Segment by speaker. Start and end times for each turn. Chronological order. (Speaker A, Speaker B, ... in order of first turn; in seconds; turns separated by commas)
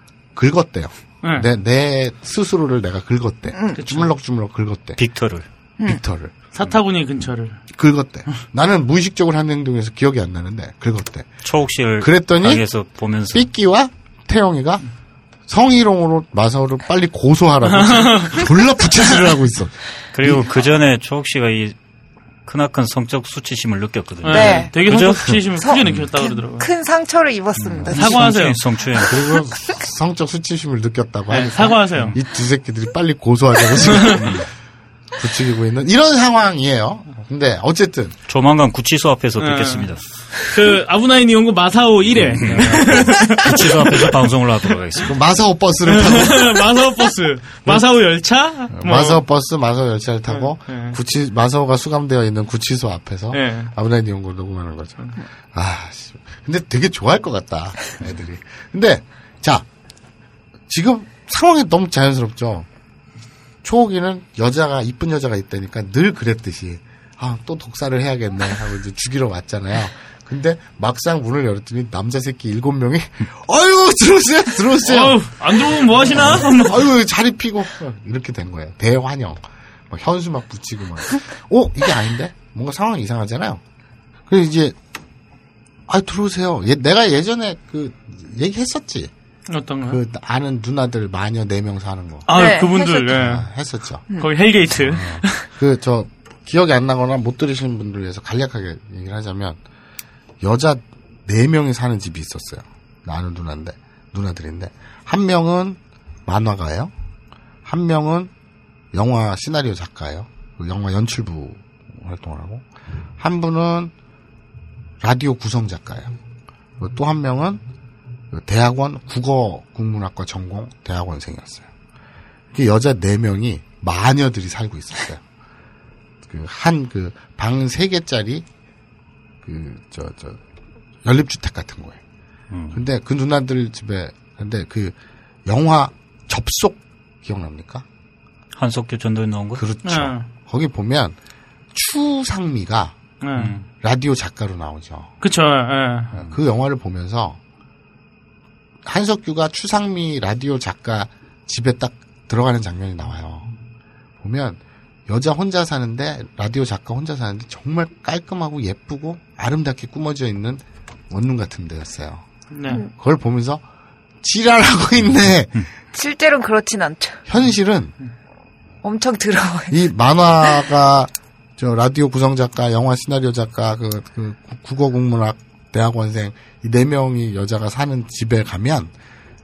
Speaker A: 0.3-5.0, Speaker B: 1.2-1.5, Speaker C: 3.5-3.8, Speaker B: 3.8-4.1, Speaker D: 5.0-5.5, Speaker A: 5.8-6.3, Speaker B: 6.5-7.6, Speaker A: 7.7-11.3, Speaker D: 11.4-13.5, Speaker A: 12.0-12.7, Speaker A: 13.3-14.8, Speaker A: 15.5-20.5, Speaker B: 17.7-18.5, Speaker D: 20.1-21.8, Speaker D: 22.4-25.9, Speaker B: 24.2-26.7, Speaker C: 24.3-24.7, Speaker C: 25.6-28.2, Speaker D: 27.6-29.2, Speaker B: 27.9-28.6, Speaker A: 29.0-34.4, Speaker B: 31.3-32.1, Speaker B: 33.9-34.2, Speaker D: 34.0-34.5, Speaker A: 35.1-38.1, Speaker D: 38.3-40.0, Speaker B: 39.4-44.1, Speaker D: 42.2-45.2, Speaker A: 45.0-46.7, Speaker B: 45.9-49.2, Speaker A: 48.7-59.6, Speaker B: 50.3-51.0, Speaker B: 53.3-53.7, Speaker A: 60.7-62.7, Speaker A: 63.6-83.6, Speaker B: 74.8-76.9, Speaker A: 84.3-84.8, Speaker A: 85.9-89.1, Speaker B: 89.5-90.0, Speaker A: 89.8-92.4, Speaker B: 92.3-93.4, Speaker C: 92.3-93.1, Speaker A: 93.0-94.1, Speaker B: 94.2-95.5, Speaker A: 94.7-99.6, Speaker A: 100.4-106.9, Speaker A: 107.6-108.3, Speaker A: 108.9-112.6, Speaker A: 113.2-113.9, Speaker A: 115.0-116.1, Speaker A: 116.8-117.6, Speaker A: 118.3-121.7, Speaker A: 122.5-125.2, Speaker A: 126.3-128.4, Speaker A: 129.4-130.4, Speaker A: 131.0-132.0, Speaker D: 132.5-132.8, Speaker A: 132.7-137.8, Speaker D: 138.5-139.6, Speaker A: 139.6-141.2, Speaker B: 139.8-140.3, Speaker A: 141.7-142.9, Speaker B: 143.2-143.5, Speaker D: 143.3-143.7, Speaker A: 143.8-145.1, Speaker B: 145.2-146.1, Speaker A: 146.1-147.4, Speaker A: 148.8-153.5, Speaker A: 154.2-162.2, Speaker B: 162.5-162.8, Speaker A: 162.9-163.6, Speaker A: 164.2-165.6, Speaker C: 165.9-167.2, Speaker A: 167.3-167.9, Speaker C: 168.8-169.8, Speaker A: 169.7-178.9